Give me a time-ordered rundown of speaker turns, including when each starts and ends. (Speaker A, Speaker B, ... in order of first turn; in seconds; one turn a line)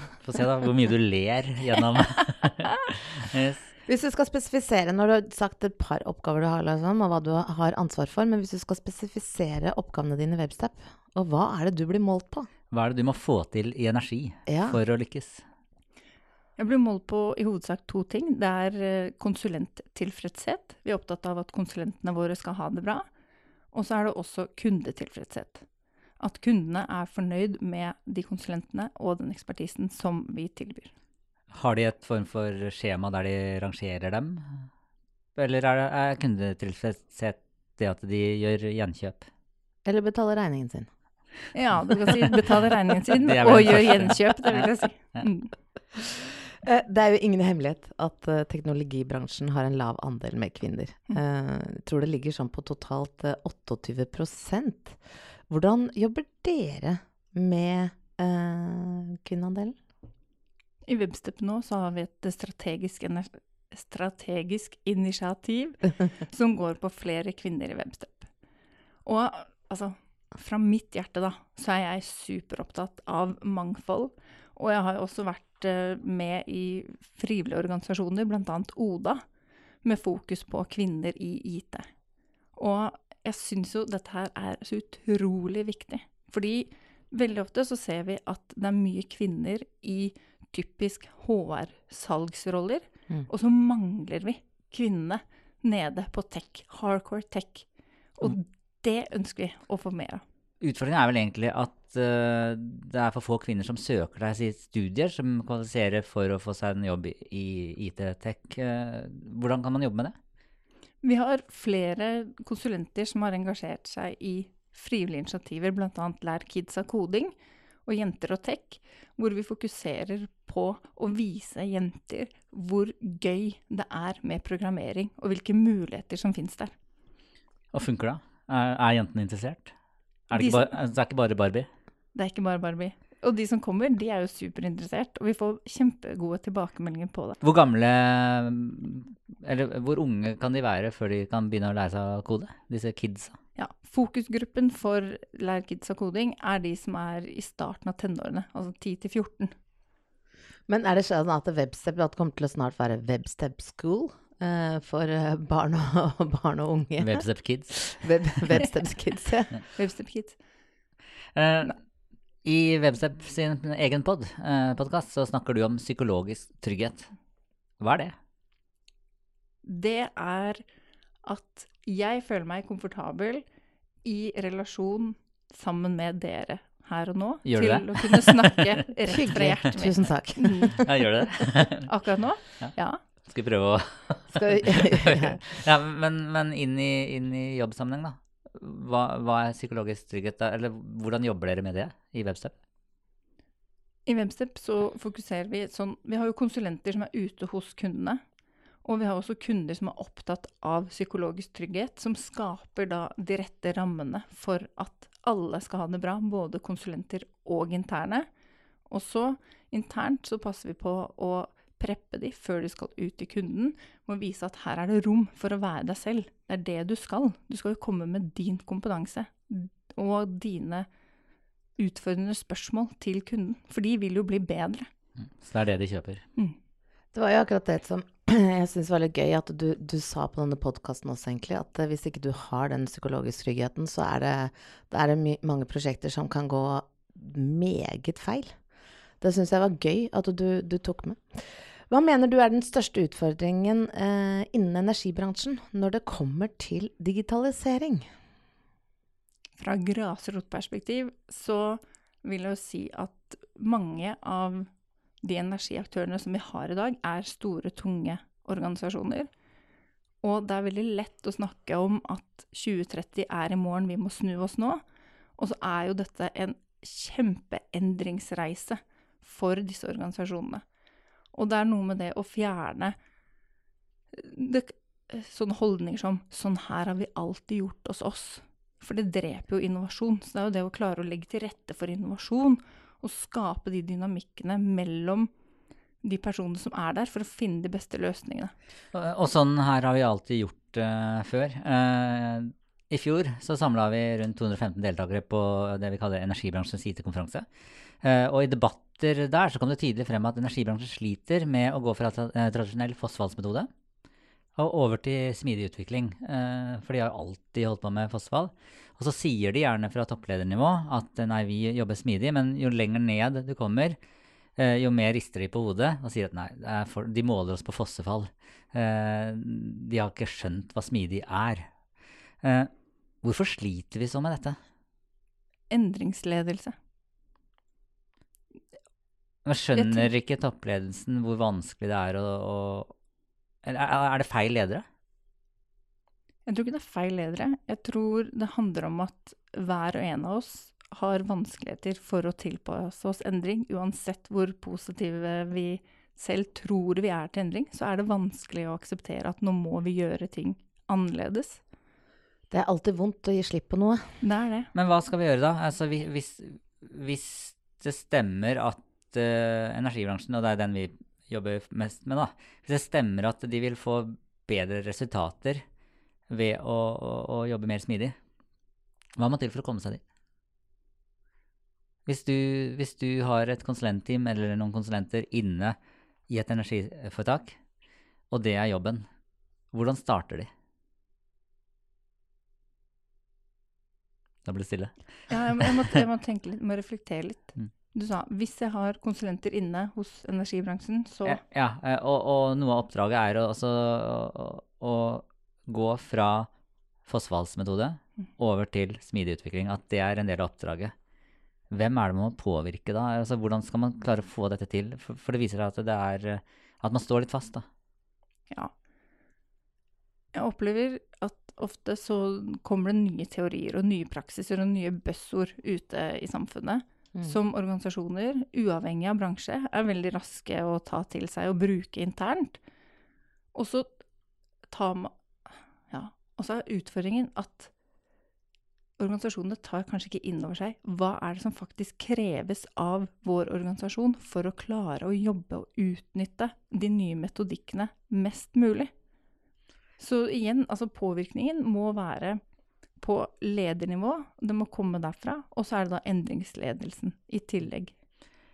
Speaker A: 0.2-3.7
Speaker B: 3.9-12.5
Speaker A: 12.7-15.4
Speaker B: 14.5-14.8
Speaker C: 16.6-23.0
Speaker C: 23.7-25.7
Speaker C: 26.2-30.9
Speaker A: 31.5-34.7
Speaker A: 35.4-39.3
Speaker B: 39.8-40.9
Speaker C: 41.5-45.5
Speaker A: 43.2-45.3
Speaker B: 46.6-59.7
Speaker C: 60.9-68.3
Speaker C: 69.0-79.2
Speaker C: 79.8-81.9
Speaker C: 82.5-100.2
Speaker A: 100.6-110.2
Speaker C: 111.0-126.7
Speaker A: 127.7-129.7
Speaker A: 130.3-131.7
Speaker C: 130.3-130.7
Speaker C: 132.1-137.4
Speaker A: 137.4-143.3
Speaker C: 143.6-149.5
Speaker B: 150.7-159.6
Speaker A: 157.0-158.0
Speaker C: 159.7-160.4
Speaker A: 161.3-161.8
Speaker A: 162.4-167.1
Speaker A: 167.8-168.2
Speaker C: 169.6-170.6
Speaker C: 171.2-173.4
Speaker C: 174.0-180.8
Speaker A: 177.4-178.6
Speaker B: 179.1-180.8
Speaker A: 180.8-181.9
Speaker C: 181.8-183.0
Speaker A: 183.3-192.6
Speaker B: 184.3-185.4
Speaker C: 194.1-198.2
Speaker C: 198.8-208.3
Speaker C: 208.9-220.9
Speaker C: 221.8-224.9
Speaker A: 225.4-226.2
Speaker B: 227.1-238.5
Speaker B: 239.2-248.1
Speaker C: 249.6-254.7
Speaker C: 255.2-259.3
Speaker C: 260.2-264.8
Speaker C: 265.4-270.6
Speaker C: 271.3-272.9
Speaker C: 274.1-285.3
Speaker C: 286.0-288.5
Speaker A: 288.9-297.4
Speaker A: 298.0-303.7
Speaker A: 304.6-314.0
Speaker A: 314.6-321.7
Speaker A: 322.4-322.7
Speaker A: 323.2-324.6
Speaker C: 325.7-326.7
Speaker A: 329.4-332.9
Speaker C: 329.8-330.1
Speaker A: 333.6-334.8
Speaker C: 336.4-351.6
Speaker B: 352.5-354.2
Speaker C: 354.2-354.7
Speaker A: 354.8-365.6
Speaker A: 366.3-368.1
Speaker A: 369.2-370.0
Speaker A: 372.1-375.8
Speaker A: 376.3-377.6
Speaker A: 378.3-379.1
Speaker A: 379.7-380.5
Speaker A: 384.4-384.9
Speaker C: 385.3-391.4
Speaker A: 391.2-396.5
Speaker A: 397.1-400.9
Speaker A: 401.7-407.6
Speaker C: 410.3-422.6
Speaker C: 423.5-424.0
Speaker C: 424.7-425.1
Speaker C: 425.9-427.7
Speaker C: 429.0-438.9
Speaker C: 440.0-442.4
Speaker C: 443.0-447.9